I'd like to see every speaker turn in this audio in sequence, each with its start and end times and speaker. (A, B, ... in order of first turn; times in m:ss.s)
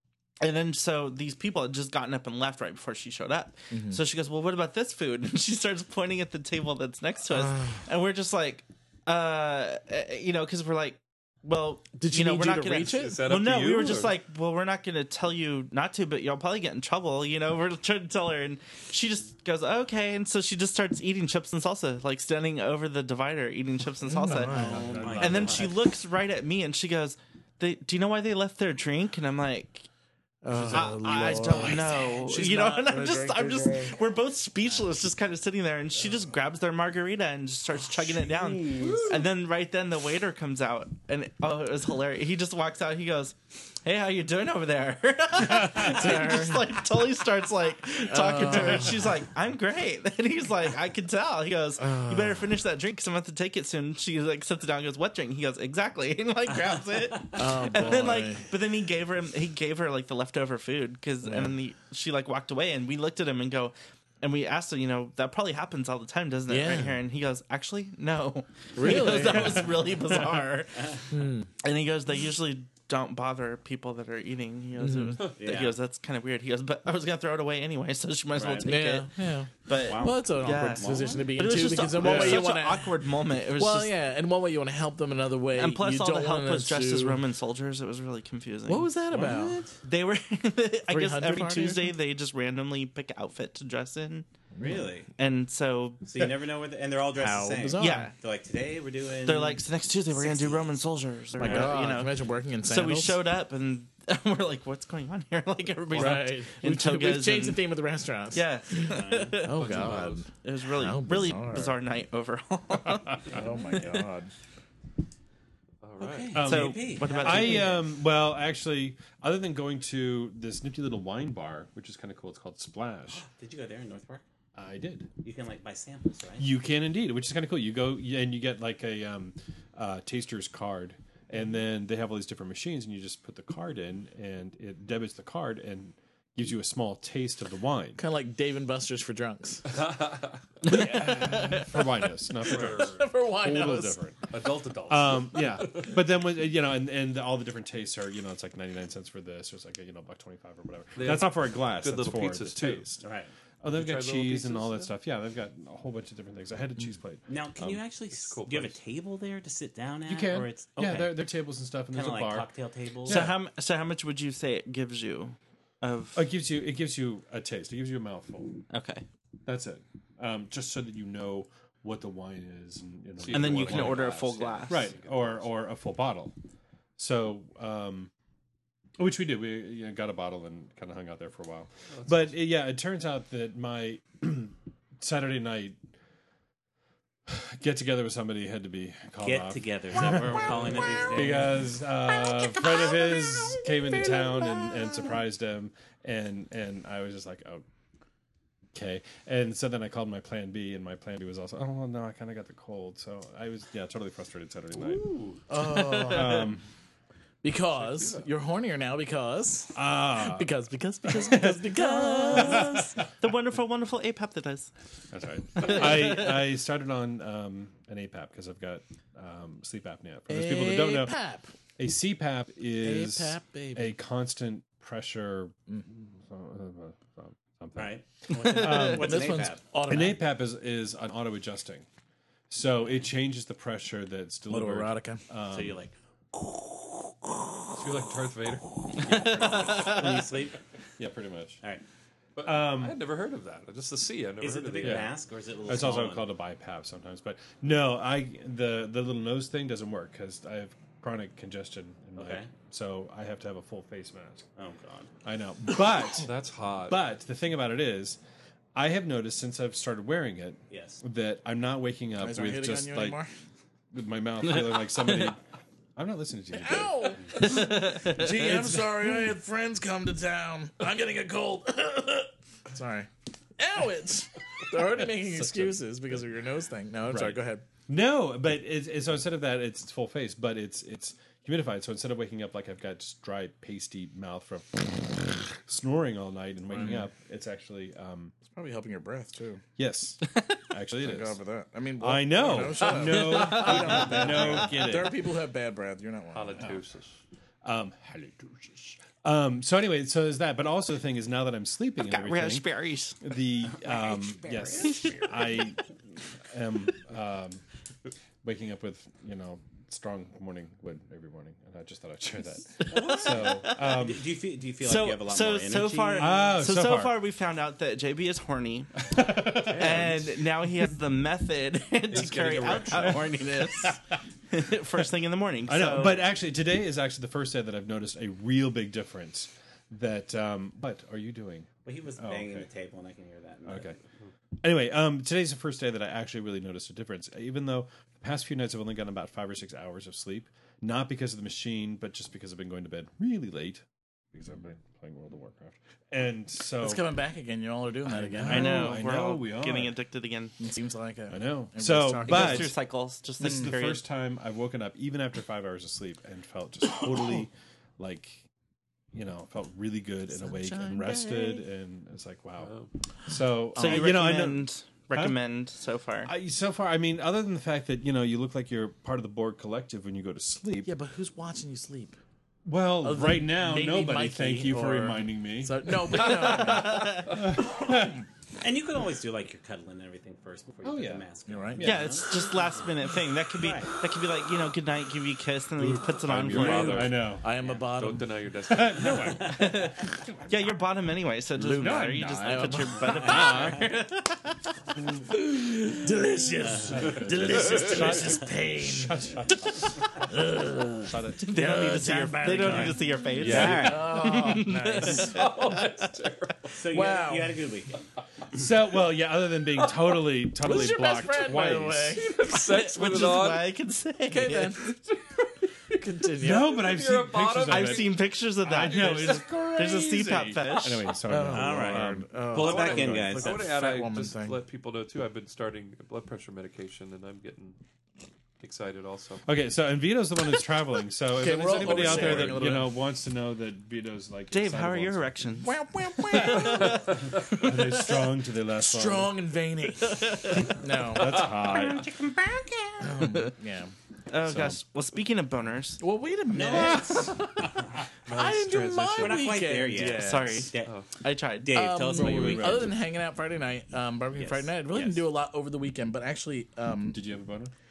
0:00.4-0:29.9 A
0:03.7-0:04.0 B
0:07.4-0:07.8 B
0:12.0-0:13.2 B
0:12.9-0:14.1 C
0:24.0-0:24.9 B
0:24.5-0:25.7 D
0:24.7-0:25.7 E
0:30.4-0:34.0 B
0:30.7-1:19.1 A
0:38.7-0:39.0 B
0:38.8-0:39.2 C
0:45.6-0:46.7 B
0:48.1-0:49.0 B
0:51.8-0:52.5 B
0:56.6-0:58.1 D
0:57.3-0:58.5 B
1:01.2-1:01.5 B
1:06.5-1:07.0 B
1:08.8-1:09.7 B
1:11.1-1:11.5 B
1:14.8-1:15.2 B
1:15.4-1:15.8 D
1:18.3-1:18.7 D
1:18.6-1:22.9 B
1:19.7-1:23.9 A
1:19.7-1:22.1 D
1:22.0-1:22.4 E
1:23.6-1:27.2 B
1:25.6-1:28.9 A
1:28.7-1:29.6 B
1:29.1-1:29.8 D
1:29.8-1:34.3 A
1:30.9-1:31.9 B
1:34.5-1:34.8 B
1:34.6-1:35.1 D
1:35.2-1:36.2 A
1:36.0-1:40.7 D
1:37.2-1:38.1 B
1:37.8-1:38.1 A
1:39.2-1:42.1 A
1:41.4-1:43.2 B
1:41.4-1:41.7 D
1:42.6-1:47.6 A
1:45.9-1:51.7 B
1:48.3-1:49.7 A
1:48.9-1:49.4 D
1:49.6-1:50.3 C
1:50.4-1:54.0 A
1:53.3-1:54.3 B
1:55.8-1:56.5 C
1:56.0-1:57.8 D
1:56.3-2:03.2 E
1:56.4-1:57.8 A
2:03.1-2:04.2 D
2:04.5-2:05.1 E
2:05.2-2:06.5 D
2:06.4-2:18.0 E
2:18.0-2:19.7 B
2:19.7-2:21.3 C
2:20.6-2:24.3 E
2:21.3-2:21.7 B
2:22.4-2:23.1 C
2:22.5-2:24.0 B
2:24.3-2:25.9 C
2:24.8-2:33.0 E
2:31.0-2:32.9 C
2:33.0-2:33.3 D
2:33.6-2:37.8 E
2:33.7-2:34.9 C
2:37.3-2:41.2 D
2:38.3-2:38.8 C
2:40.0-2:42.5 E
2:41.9-2:43.3 D
2:43.0-2:43.4 E
2:43.0-2:46.2 A
2:46.1-2:48.6 E
2:48.7-2:49.0 A
2:49.4-2:54.1 E
2:53.2-2:55.4 C
2:53.3-2:54.8 A
2:53.6-2:54.6 D
2:54.7-2:56.3 E
2:57.0-2:58.1 E
2:59.0-3:05.8 E
3:01.9-3:02.3 C
3:07.3-3:17.6 E
3:09.2-3:11.7 D
3:14.0-3:14.3 D
3:18.7-3:25.1 E
3:24.7-3:25.4 C
3:25.5-3:26.5 B
3:25.8-3:26.6 E
3:27.4-3:32.8 B
3:27.7-3:28.2 C
3:29.7-3:30.5 E
3:31.1-3:32.8 E
3:31.8-3:34.7 A
3:35.1-3:41.2 E
3:35.6-3:36.3 A
3:40.3-3:41.5 B
3:41.8-3:51.8 E
3:42.8-3:43.9 B
3:47.8-3:49.6 D
3:48.6-3:50.2 B
3:52.5-3:55.8 E
3:54.5-3:55.2 B
3:55.5-3:55.9 D
3:56.4-3:57.3 B
3:57.8-3:58.6 C
3:57.8-4:01.6 E
3:59.0-4:00.3 A
3:59.1-4:00.6 D
4:02.4-4:05.1 C
4:02.4-4:03.0 E
4:04.4-4:06.3 D
4:04.8-4:05.1 E
4:05.6-4:14.5 E
4:12.2-4:12.5 D
4:14.6-4:15.1 D
4:15.2-4:16.3 E
4:16.2-4:17.0 C
4:16.9-4:18.2 E
4:18.7-4:23.2 E
4:20.7-4:21.0 D
4:22.2-4:23.3 B
4:23.9-4:25.4 E
4:26.0-4:27.5 E
4:26.5-4:37.6 B
4:27.6-4:28.0 A
4:34.8-4:36.1 E
4:37.1-4:48.3 E
4:48.5-4:49.6 B
4:49.8-4:51.4 E
4:51.0-4:56.7 B
4:52.0-4:55.2 E
4:56.3-4:57.2 C
4:57.6-5:02.7 E
5:02.0-5:03.2 A
5:03.2-5:07.6 E
5:03.7-5:05.2 D
5:08.4-5:14.3 E
5:12.9-5:13.9 A
5:12.9-5:13.4 C
5:13.8-5:16.4 D
5:14.8-5:24.0 A
5:16.2-5:17.2 E
5:19.0-5:20.4 E
5:19.6-5:20.1 C
5:22.1-5:23.2 C
5:22.3-5:23.2 D
5:24.5-5:26.3 A
5:25.6-5:32.7 E
5:31.8-5:34.0 D
5:33.6-5:34.0 E
5:34.6-5:47.0 E
5:46.8-5:49.0 B
5:48.0-5:49.9 E
5:48.4-5:50.5 A
5:50.6-5:52.7 B
5:51.3-5:52.7 E
5:52.2-5:54.0 A
5:53.4-5:58.4 E
5:53.4-5:53.7 B
5:59.1-6:05.4 E
6:00.3-6:01.6 B
6:02.6-6:02.9 C
6:03.8-6:06.3 A
6:03.8-6:04.0 B
6:06.2-6:10.9 E
6:10.8-6:12.2 B
6:12.6-6:18.2 E
6:13.0-6:17.5 B
6:16.5-6:17.3 A
6:18.6-6:22.8 D
6:20.8-6:22.1 E
6:21.5-6:22.0 B
6:21.8-6:27.1 A
6:23.5-6:23.9 D
6:25.8-6:27.4 E
6:26.3-6:27.3 C
6:26.6-6:28.3 B
6:27.9-6:29.4 C
6:28.6-6:29.9 E
6:29.2-6:29.8 D
6:29.5-6:34.5 A
6:31.6-6:33.8 B
6:31.7-6:32.8 E
6:33.0-6:33.8 D
6:35.3-6:39.3 B
6:36.6-6:37.3 D
6:36.9-6:39.9 E
6:37.6-6:38.1 C
6:38.1-6:38.4 D
6:40.2-6:45.4 B
6:41.0-6:41.9 E
6:41.4-6:46.1 A
6:42.6-6:42.9 E
6:43.4-6:44.1 C
6:43.4-6:44.0 D
6:43.4-6:43.9 E
6:45.0-6:46.8 C
6:46.7-6:48.7 D
6:46.9-6:47.6 B
6:48.5-6:52.2 E
6:49.8-6:50.1 C
6:50.6-6:52.4 B
6:52.1-6:53.7 C
6:52.6-6:54.9 A
6:54.3-6:55.0 B
6:55.9-6:56.8 B
6:56.4-7:00.2 E
6:56.8-6:58.2 C
6:57.7-7:01.1 A
6:58.8-6:59.3 C
6:59.5-7:00.6 B
7:00.7-7:03.2 E
7:00.7-7:01.0 C
7:01.2-7:04.6 B
7:01.5-7:03.7 D
7:02.5-7:07.8 C
7:08.6-7:09.5 C
7:09.4-7:15.4 E
7:11.4-7:12.9 B
7:14.5-7:17.1 A
7:15.6-7:17.7 B
7:16.2-7:19.3 E
7:18.7-7:21.8 B
7:20.2-7:20.6 A
7:21.1-7:22.1 E
7:21.4-7:23.2 D
7:23.0-7:23.9 B
7:24.3-7:26.0 A
7:24.4-7:24.8 E
7:26.0-7:30.7 B
7:26.5-7:27.9 D
7:28.3-7:29.6 C
7:29.2-7:31.0 D
7:30.0-7:32.0 A
7:31.6-7:32.9 D
7:31.7-7:37.2 B
7:32.1-7:32.9 E
7:34.4-7:35.2 D
7:37.1-7:37.7 E